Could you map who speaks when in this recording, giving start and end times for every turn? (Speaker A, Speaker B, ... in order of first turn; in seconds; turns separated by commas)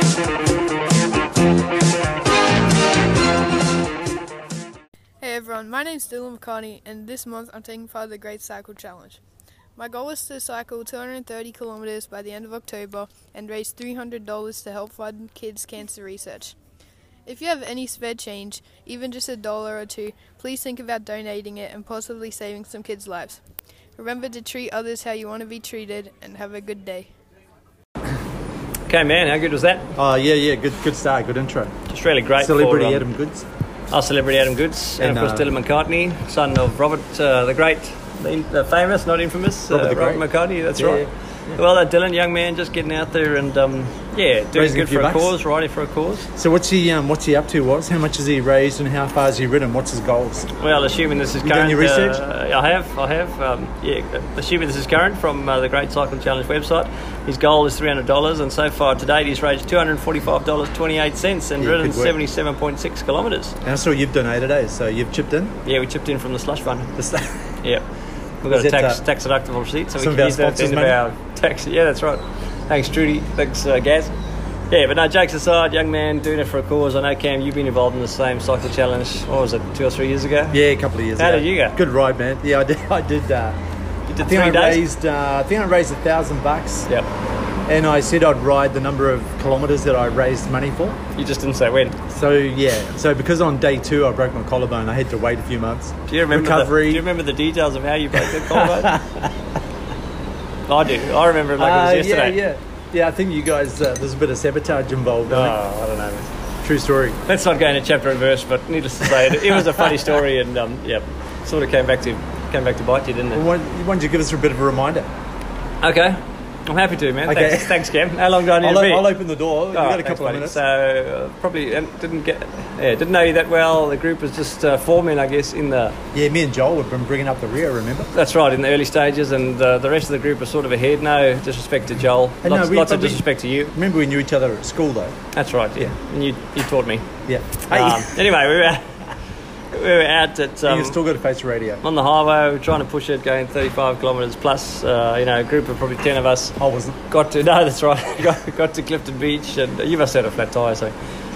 Speaker A: 5.2-9.2, Speaker A: 9.8-16.6, Speaker A: 17.3-23.4, Speaker A: 24.0-27.1, Speaker B: 28.9-29.9, Speaker C: 30.0-31.8, Speaker B: 31.9-33.1, Speaker C: 32.4-33.5, Speaker B: 33.9-46.3, Speaker C: 35.0-35.5, Speaker C: 39.7-40.2, Speaker C: 40.8-41.1, Speaker C: 44.5-45.4, Speaker C: 46.4-50.5, Speaker B: 50.6-63.6, Speaker C: 51.4-52.2, Speaker C: 61.6-62.2, Speaker C: 63.6-65.6, Speaker B: 65.7-66.9, Speaker C: 67.0-67.4, Speaker B: 68.4-74.1, Speaker C: 68.5-69.0, Speaker C: 70.0-71.0, Speaker B: 74.7-80.6, Speaker C: 80.5-83.6, Speaker B: 81.2-81.8, Speaker B: 84.1-84.8, Speaker C: 84.2-86.9, Speaker C: 87.7-91.0, Speaker B: 91.2-92.0, Speaker C: 92.1-97.1, Speaker B: 96.1-99.0, Speaker C: 98.3-99.3, Speaker B: 100.7-102.4, Speaker C: 101.6-105.6, Speaker B: 105.3-106.3, Speaker C: 106.6-107.2, Speaker B: 107.3-113.5, Speaker C: 113.3-115.1, Speaker B: 115.8-119.2, Speaker C: 117.3-117.8, Speaker C: 118.5-120.6, Speaker B: 119.7-126.0, Speaker C: 126.1-128.1, Speaker B: 128.1-133.7, Speaker C: 132.4-135.2, Speaker B: 135.3-137.1, Speaker C: 137.3-138.2, Speaker B: 137.7-138.9, Speaker B: 139.7-141.0, Speaker C: 140.7-141.8, Speaker B: 141.8-146.6, Speaker C: 146.6-147.0, Speaker B: 147.1-150.9